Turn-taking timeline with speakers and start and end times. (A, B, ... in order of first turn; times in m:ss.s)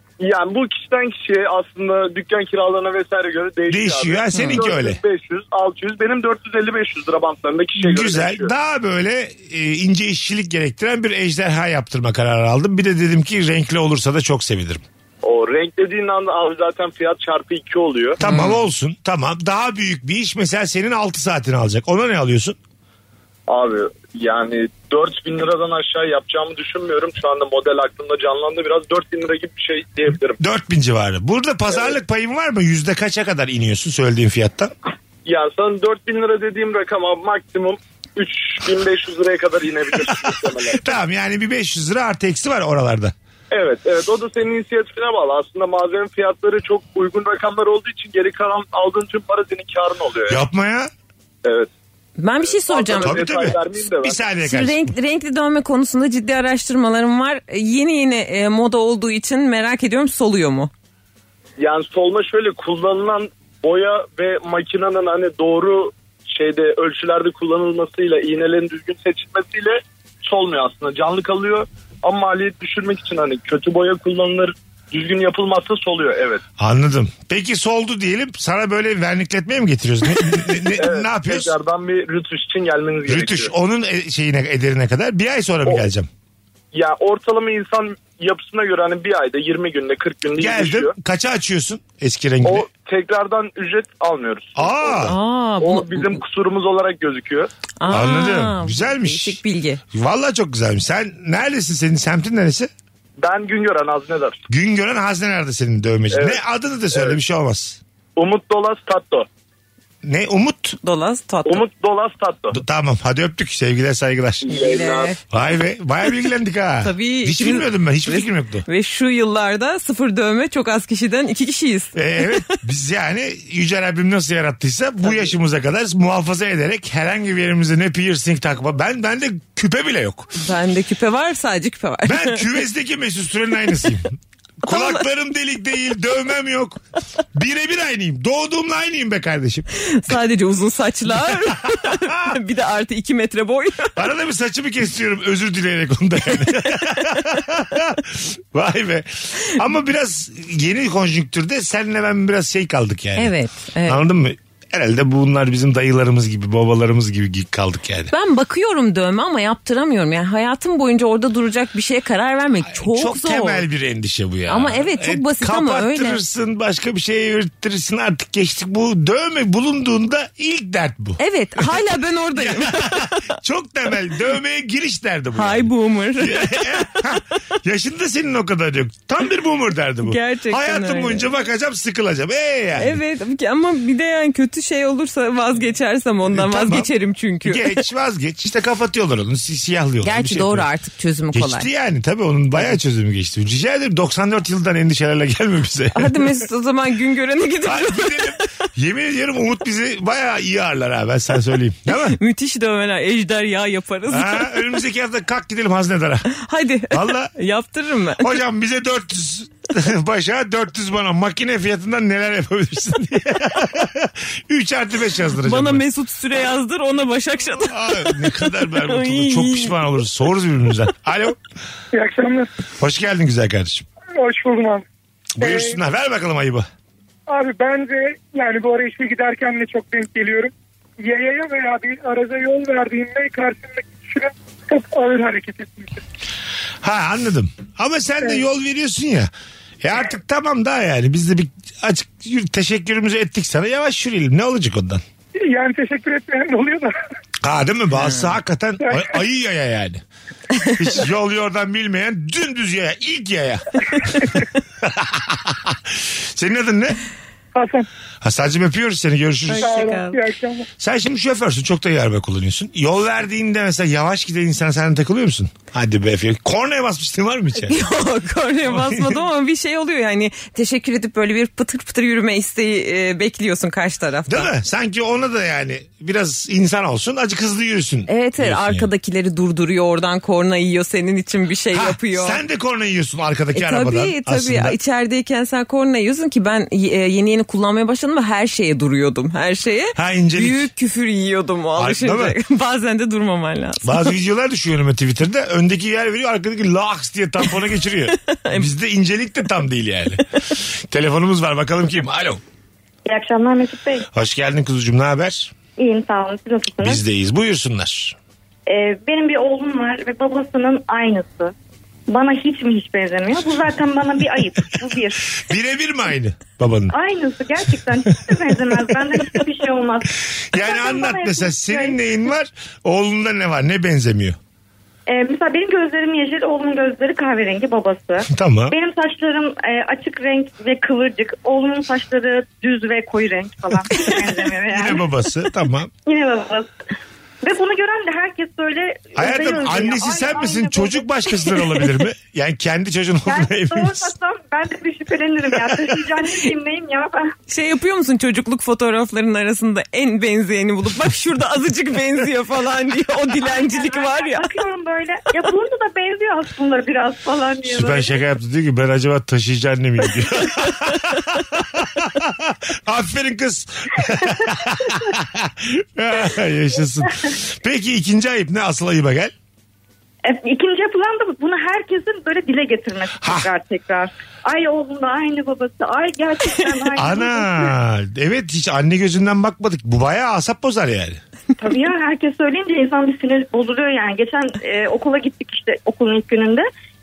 0:00.2-0:08.5 A
0:03.7-0:05.0 B
0:04.3-0:04.6 C
0:07.8-0:14.8 B
0:15.2-0:18.2 A
0:18.2-0:18.6 C
0:18.2-0:22.6 B
0:23.5-0:30.4 A
0:30.4-0:34.7 B
0:35.2-0:40.9 A
0:40.7-0:43.1 B
0:43.5-0:50.4 A
0:50.3-0:50.9 B
0:51.4-0:51.7 A
0:52.2-0:53.5 C
0:52.7-0:54.2 A
0:53.0-0:54.9 B
0:54.4-1:00.7 C
1:01.6-1:16.4 A
1:16.6-1:21.5 B
1:20.8-1:23.5 A
1:23.1-1:26.1 B
1:26.7-1:30.9 A
1:30.4-1:32.7 B
1:32.4-1:37.5 A
1:34.6-1:35.2 B
1:35.0-1:36.2 C
1:37.8-1:39.8 C
1:37.9-1:39.4 B
1:39.9-1:42.7 B
1:43.2-1:44.4 A
1:44.5-1:47.8 B
1:46.1-1:46.4 A
1:48.2-1:49.3 A
1:50.0-1:50.8 B
1:50.8-1:51.6 C
1:51.4-1:52.6 A
1:52.5-1:54.5 B
1:54.4-1:55.1 A
1:54.4-1:55.2 C
1:55.3-1:58.6 B
1:56.8-2:02.0 C
2:01.9-2:10.3 B
2:10.4-2:12.4 C
2:12.0-2:16.8 B
2:14.7-2:15.0 C
2:17.3-2:19.7 B
2:19.8-2:24.0 C
2:21.2-2:22.3 B
2:24.0-2:33.3 B
2:33.2-2:34.0 C
2:33.8-2:38.1 B
2:38.1-2:43.6 C
2:42.7-2:51.8 B
2:44.5-2:46.2 C
2:51.2-2:53.3 C
2:52.3-3:03.0 B
2:55.3-2:57.0 C
3:00.0-3:01.3 C
3:02.8-3:07.8 C
3:06.3-3:06.9 B
3:07.4-3:10.7 B
3:10.0-3:11.7 C
3:11.3-3:16.3 B
3:15.9-3:18.3 C
3:17.6-3:22.2 B
3:21.9-3:24.6 C
3:24.1-3:26.3 B
3:26.3-3:28.3 C
3:26.9-3:27.3 B
3:28.2-3:35.8 B
3:35.4-3:39.8 C
3:37.6-3:41.4 B
3:41.9-3:42.5 D
3:42.8-3:43.8 B
3:44.2-3:44.8 D
3:45.4-3:46.7 B
3:45.4-3:45.8 D
3:47.3-3:56.0 D
3:56.8-3:59.3 B
3:59.8-4:05.0 B
4:05.4-4:06.9 D
4:07.4-4:10.0 B
4:08.0-4:08.3 C
4:08.8-4:09.1 D
4:10.8-4:17.0 B
4:17.6-4:17.9 D
4:18.2-4:19.8 B
4:19.5-4:20.2 C
4:19.6-4:20.7 D
4:20.8-4:27.8 B
4:27.6-4:34.5 C
4:28.7-4:29.2 B
4:34.3-4:38.9 B
4:38.1-4:42.4 C
4:41.7-4:44.8 B
4:43.6-4:54.2 C
4:49.9-4:50.7 B
4:51.8-4:52.4 B
4:53.8-5:02.4 B
4:58.3-4:58.7 C
5:03.1-5:04.1 E
5:04.1-5:05.5 B
5:05.8-5:07.0 E
5:06.8-5:08.2 B
5:08.7-5:11.5 E
5:12.1-5:15.3 E
5:15.4-5:16.9 B
5:16.9-5:22.0 E
5:20.5-5:24.4 B
5:25.1-5:35.0 E
5:28.3-5:28.8 B
5:34.7-5:35.9 B
5:36.1-5:36.8 E
5:37.4-5:41.1 E
5:39.2-5:44.1 B
5:43.3-5:47.3 E
5:45.6-5:46.0 B
5:47.5-5:54.4 C
5:53.4-5:58.1 E
5:57.6-6:09.3 B
6:10.2-6:17.7 E
6:13.2-6:13.5 B
6:17.0-6:21.2 B
6:21.6-6:26.7 E